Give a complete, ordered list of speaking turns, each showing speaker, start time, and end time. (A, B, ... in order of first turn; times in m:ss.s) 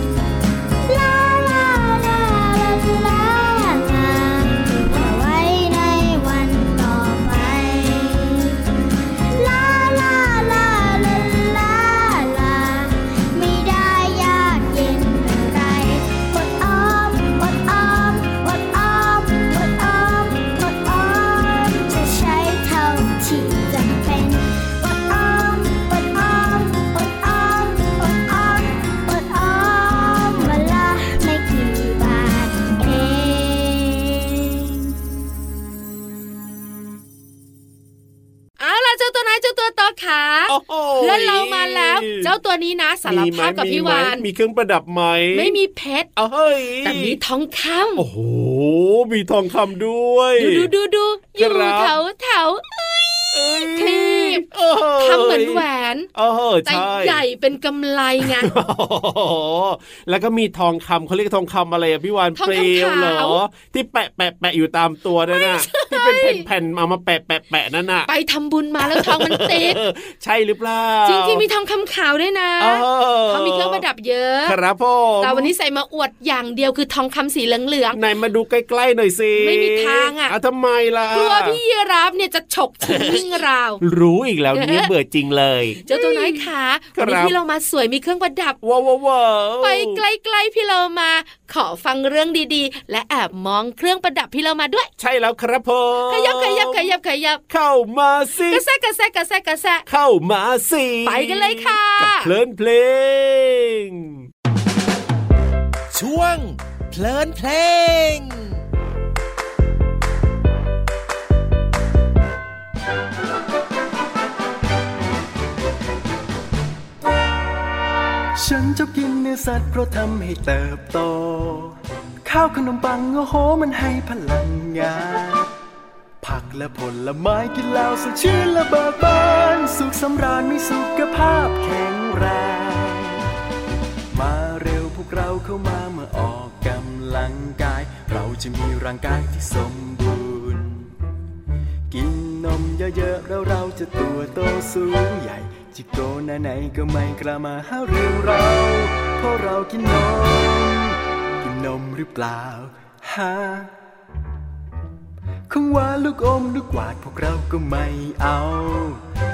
0:00.8-0:08.7 A
0:09.3-0:34.9 A
0:38.6-0:44.2 B
0:40.5-0:42.3 C
0:43.0-0:45.6 C
0:45.3-0:46.1 B
0:46.2-0:47.2 C
0:46.8-0:48.0 B
0:48.0-0:50.7 C
0:50.4-0:54.5 B
0:51.4-0:51.9 C
0:53.3-0:55.6 C
0:55.0-0:56.1 B
0:56.1-0:57.2 C
0:56.7-0:58.6 B
0:58.2-1:08.1 C
1:02.4-1:03.4 B
1:05.3-1:06.4 B
1:08.1-1:09.8 B
1:08.8-1:11.4 C
1:11.0-1:14.6 B
1:12.6-1:13.8 C
1:14.4-1:15.5 C
1:15.2-1:18.0 B
1:17.9-1:21.6 C
1:19.4-1:20.3 B
1:21.1-1:23.8 B
1:22.8-1:27.3 C
1:24.5-1:24.9 B
1:25.8-1:28.6 B
1:28.6-1:30.0 C
1:29.6-1:34.9 B
1:35.0-1:36.9 C
1:36.1-1:37.4 B
1:37.5-1:38.6 C
1:38.4-1:39.8 B
1:39.9-1:44.2 C
1:41.0-1:42.3 B
1:45.9-1:48.6 D
1:58.3-2:05.5 E
2:06.2-2:13.2 E
2:14.1-2:20.9 E
2:21.9-2:33.7 E
2:35.5-2:39.0 E